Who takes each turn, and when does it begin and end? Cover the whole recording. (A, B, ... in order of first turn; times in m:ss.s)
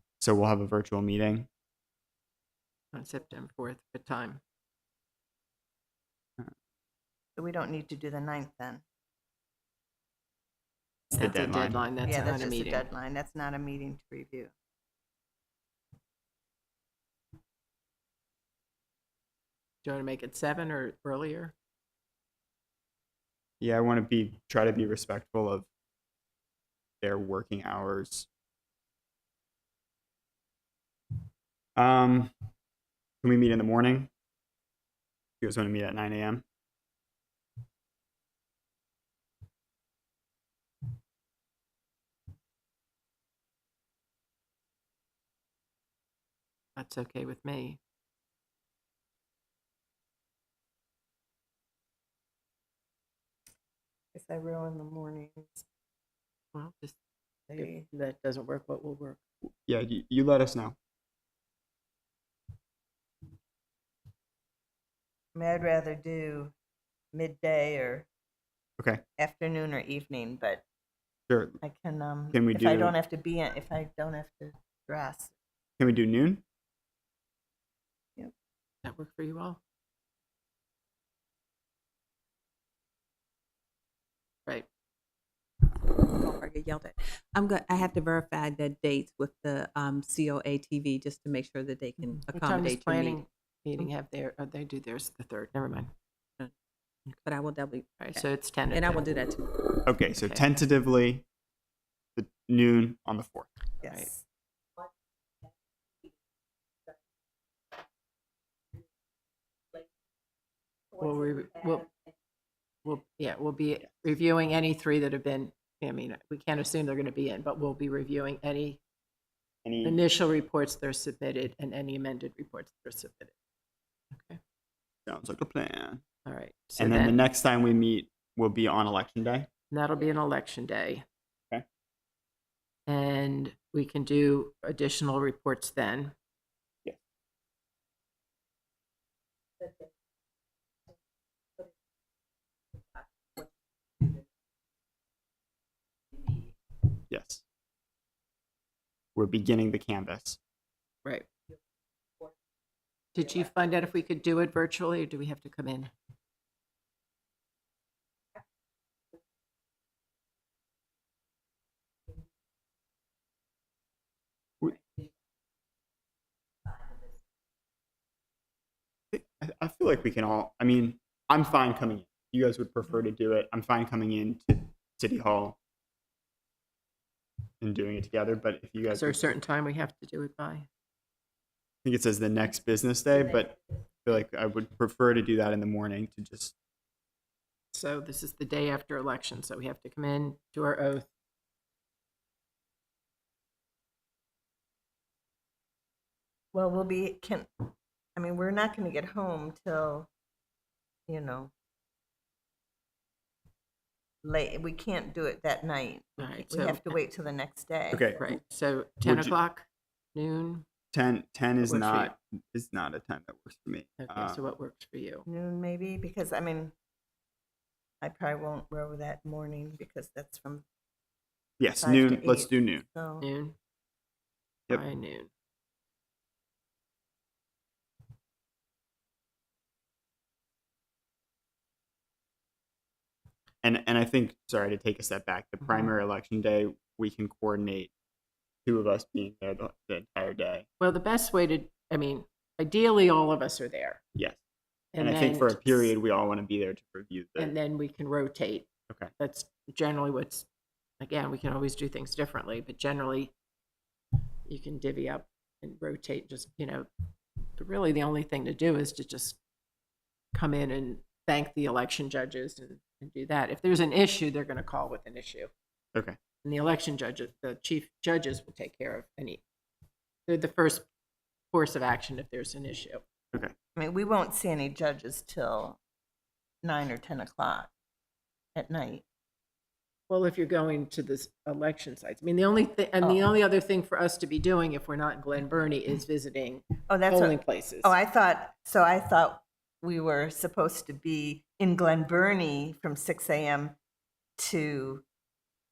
0:00.2-0:01.5 A
0:02.9-0:04.4 B
0:07.4-0:08.8 C
0:11.1-0:12.9 B
0:11.2-0:11.8 A
0:12.0-0:14.5 C
0:19.8-0:21.5 B
0:23.6-0:25.7 A
0:27.0-0:28.3 A
0:31.8-0:32.3 A
0:33.2-0:34.1 A
0:35.4-0:36.4 A
0:46.8-0:47.8 B
0:54.1-0:55.7 C
0:56.5-0:57.0 B
0:57.5-0:57.9 C
0:57.5-0:59.2 B
0:59.7-1:00.8 A
1:05.3-1:06.5 C
1:07.1-1:08.1 C
1:09.2-1:10.6 C
1:11.3-1:11.6 A
1:11.6-1:15.3 C
1:12.3-1:12.9 A
1:15.8-1:16.4 A
1:18.8-1:19.6 B
1:25.7-1:33.2 D
1:32.0-1:35.9 B
1:37.1-1:39.8 D
1:38.0-1:39.1 B
1:39.8-1:41.2 A
1:40.1-1:40.4 B
1:42.2-1:43.5 A
1:43.8-1:44.2 C
1:43.8-1:44.1 B
1:51.0-1:51.9 B
1:52.8-1:58.8 B
1:59.6-2:00.0 A
1:59.8-2:03.3 B
2:04.1-2:04.4 B
2:05.0-2:06.0 A
2:06.2-2:07.2 B
2:06.8-2:09.5 A
2:09.7-2:11.0 B
2:12.9-2:16.1 B
2:19.6-2:19.9 D
2:22.8-2:24.2 D
2:26.1-2:26.5 D
2:27.1-2:27.4 A
2:29.2-2:30.4 A
2:33.1-2:35.9 B
2:49.1-2:55.6 A
2:57.6-2:59.3 A
2:58.9-3:00.7 B
3:01.8-3:06.5 A
3:07.7-3:11.1 B
3:16.5-3:20.1 C
3:21.1-3:21.5 C
3:24.2-3:28.2 C
3:26.2-3:27.0 B
3:27.9-3:28.2 A
3:28.2-3:30.7 B
3:29.0-3:29.4 A
3:30.9-3:34.4 A
3:31.6-3:32.1 B
3:34.0-3:35.2 B
3:35.3-3:36.7 C
3:38.0-3:40.6 C
3:41.6-3:42.8 A
3:41.8-3:43.2 C
3:43.2-3:43.6 B
3:44.7-3:45.3 B
3:53.6-3:57.9 A
3:58.7-4:00.7 A
4:00.8-4:04.0 B
4:04.9-4:05.9 B
4:05.0-4:07.5 A
4:07.4-4:10.5 B
4:11.0-4:13.3 B
4:14.4-4:16.9 B
4:17.5-4:19.4 B
4:20.3-4:25.5 B
4:26.4-4:29.4 B
4:30.3-4:30.9 B
4:31.5-4:33.0 B
4:33.8-4:35.8 C
4:36.6-4:37.7 C
4:38.6-4:39.0 C
4:40.1-4:47.9 B
4:43.0-4:43.3 C
4:46.9-4:53.8 C
4:54.4-4:55.0 C